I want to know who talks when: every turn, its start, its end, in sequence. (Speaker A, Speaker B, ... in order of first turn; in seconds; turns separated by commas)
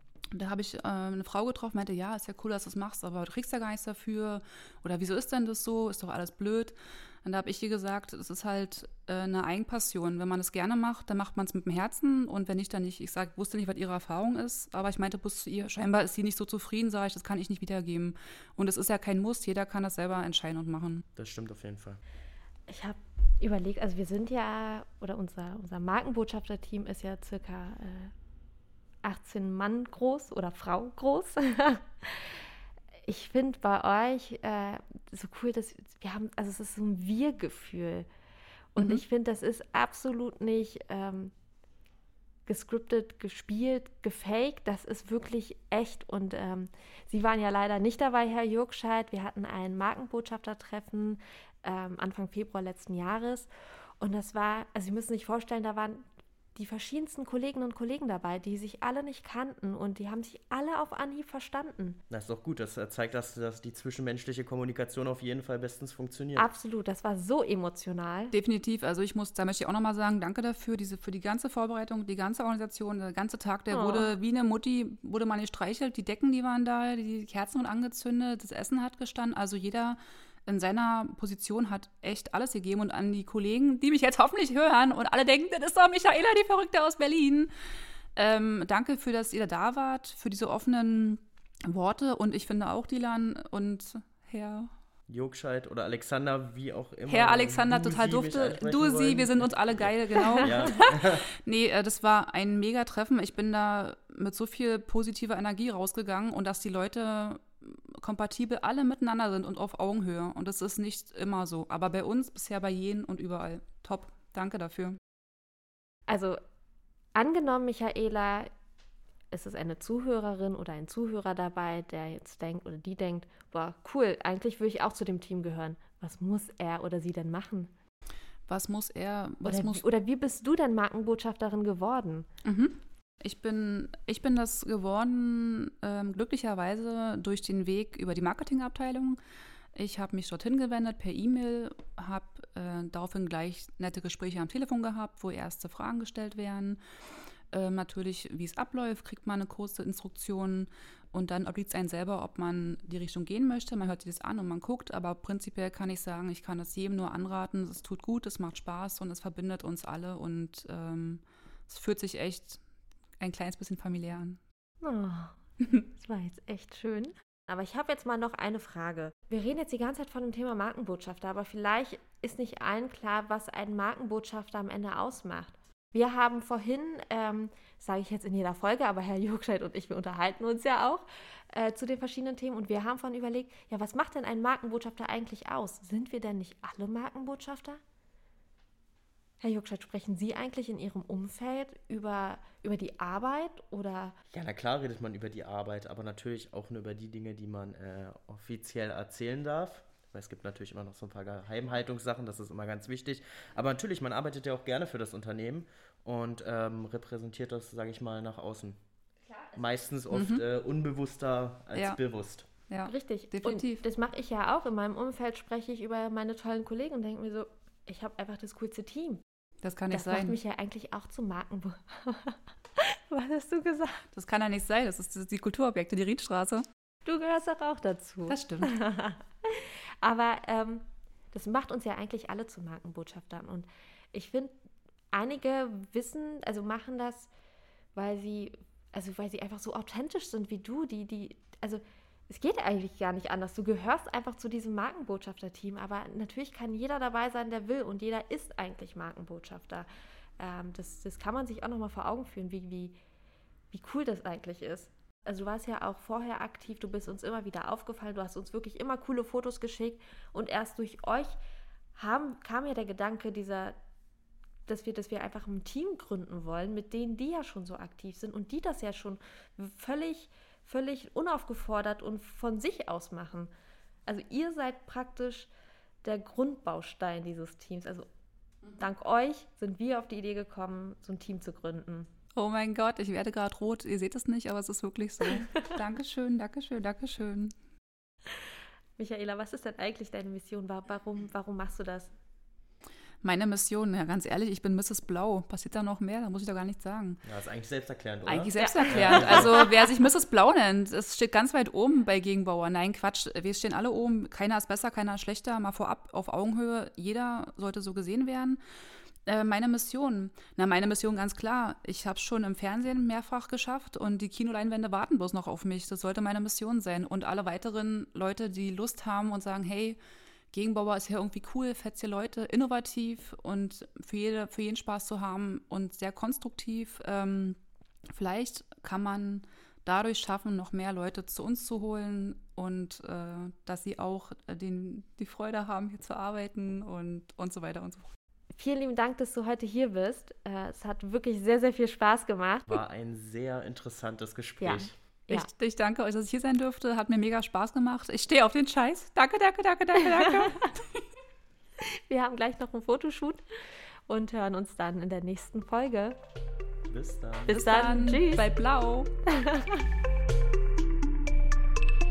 Speaker A: 0.3-21.0, Speaker B: 21.1-22.0, Speaker C: 22.7-28.1, Speaker C: 29.0-32.4, Speaker C: 33.0-38.1, Speaker C: 38.7-41.3, Speaker C: 42.5-53.5, Speaker C: 54.0-56.0, Speaker C: 56.5-62.0, Speaker B: 62.1-66.5, Speaker C: 66.3-68.3, Speaker A: 68.3-87.5, Speaker C: 73.7-74.1, Speaker A: 88.2-94.7, Speaker B: 95.1-101.3, Speaker A: 97.1-115.0, Speaker C: 116.1-116.4, Speaker C: 117.1-118.5, Speaker C: 119.3-127.7, Speaker A: 128.5-129.8, Speaker C: 129.4-132.2, Speaker A: 132.4-139.2, Speaker A: 139.7-146.8, Speaker A: 147.5-162.6, Speaker A: 163.2-164.4, Speaker C: 164.8-187.8, Speaker C: 189.4-194.2, Speaker B: 194.3-208.8, Speaker B: 209.6-212.5, Speaker A: 210.1-210.4, Speaker A: 212.7-213.8, Speaker C: 212.8-219.2, Speaker A: 219.6-220.3, Speaker C: 219.9-224.0, Speaker A: 224.1-226.6, Speaker C: 227.0-234.5, Speaker A: 228.3-228.7, Speaker C: 235.1-237.3, Speaker C: 237.9-249.9, Speaker C: 250.4-252.9, Speaker C: 253.7-261.4, Speaker C: 261.9-263.8, Speaker C: 264.7-273.5, Speaker C: 274.1-275.5, Speaker C: 276.0-278.1, Speaker C: 278.8-282.1, Speaker A: 282.4-287.5, Speaker C: 285.2-285.7, Speaker C: 289.0-292.1, Speaker A: 293.2-297.2, Speaker B: 297.2-299.6, Speaker A: 298.2-308.6, Speaker C: 298.6-299.9, Speaker A: 309.3-320.0, Speaker A: 320.5-327.6, Speaker A: 328.1-338.1, Speaker C: 338.5-342.8, Speaker B: 342.7-344.9, Speaker C: 344.6-345.5, Speaker A: 345.3-351.0, Speaker C: 350.0-350.7, Speaker C: 352.0-353.4, Speaker C: 354.1-356.2, Speaker B: 356.9-357.6, Speaker A: 357.5-359.1, Speaker C: 357.5-358.5, Speaker C: 359.3-359.8